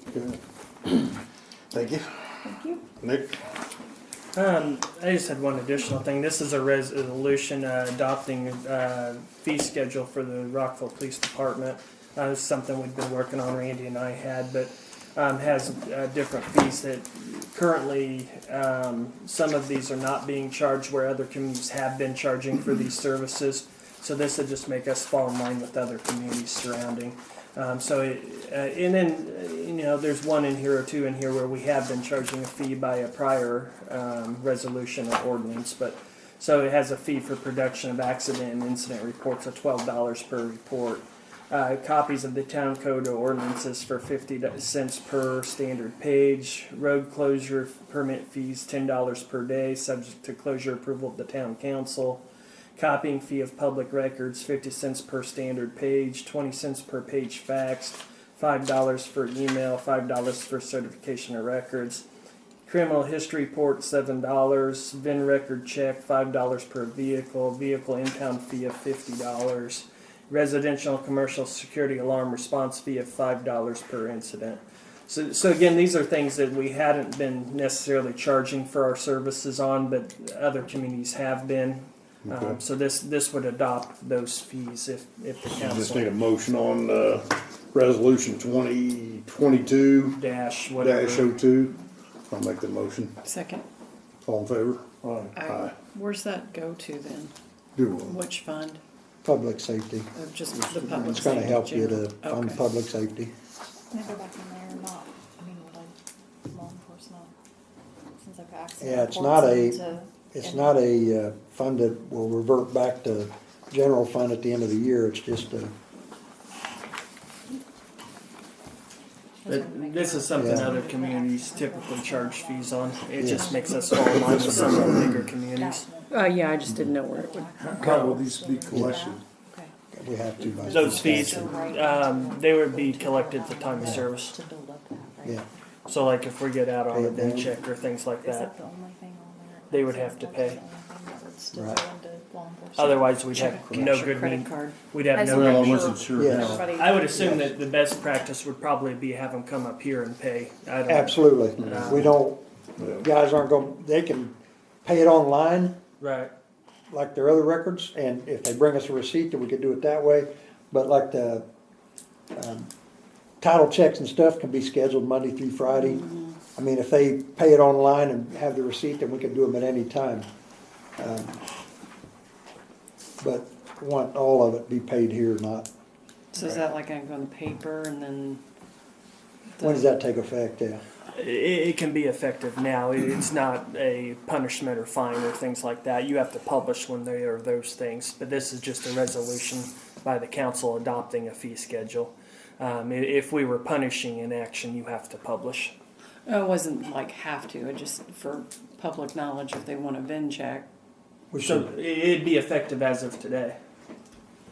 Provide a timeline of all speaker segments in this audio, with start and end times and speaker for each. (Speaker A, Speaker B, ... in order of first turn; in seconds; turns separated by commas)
Speaker A: 0.1-1.2, Speaker A: 1.7-3.3, Speaker B: 2.4-2.8, Speaker C: 4.3-52.2, Speaker C: 52.8-62.0, Speaker C: 62.6-86.1, Speaker A: 82.2-82.6, Speaker A: 85.5-90.2, Speaker C: 90.1-91.3, Speaker A: 90.8-91.8, Speaker A: 92.3-93.1, Speaker D: 93.2-93.7, Speaker A: 94.2-95.7, Speaker D: 95.3-97.3, Speaker A: 97.8-98.2, Speaker D: 98.0-98.8, Speaker E: 99.2-100.1, Speaker D: 100.1-102.6, Speaker A: 100.7-101.3, Speaker E: 101.0-103.3, Speaker B: 103.9-105.9, Speaker B: 106.5-107.3, Speaker B: 108.2-110.8, Speaker E: 108.8-109.8, Speaker E: 110.3-115.7, Speaker B: 119.4-129.7, Speaker C: 119.5-125.9, Speaker E: 120.3-120.7, Speaker E: 123.2-123.5, Speaker A: 124.8-125.0, Speaker D: 126.1-127.5, Speaker A: 127.6-129.2, Speaker E: 128.7-129.0, Speaker E: 129.9-131.5, Speaker B: 130.4-135.4, Speaker C: 130.7-134.4, Speaker C: 135.9-138.5, Speaker E: 136.9-137.5, Speaker B: 138.2-143.8, Speaker C: 139.7-140.6, Speaker E: 141.5-141.8, Speaker C: 142.8-152.1, Speaker D: 143.3-144.8, Speaker B: 145.1-146.8, Speaker A: 145.2-146.8, Speaker E: 146.1-146.6, Speaker E: 147.1-147.5, Speaker E: 150.9-152.4, Speaker A: 152.8-153.1, Speaker E: 153.0-154.3, Speaker E: 154.8-155.8, Speaker C: 156.0-156.3, Speaker E: 156.9-161.4, Speaker E: 162.3-162.7, Speaker E: 163.4-166.0, Speaker D: 165.8-166.3, Speaker E: 166.5-170.2, Speaker E: 171.0-171.4, Speaker E: 173.2-175.7, Speaker D: 176.3-178.4, Speaker D: 179.6-179.9, Speaker E: 179.6-180.8, Speaker C: 181.1-195.7, Speaker D: 196.2-200.7, Speaker E: 201.3-201.7, Speaker C: 201.4-203.6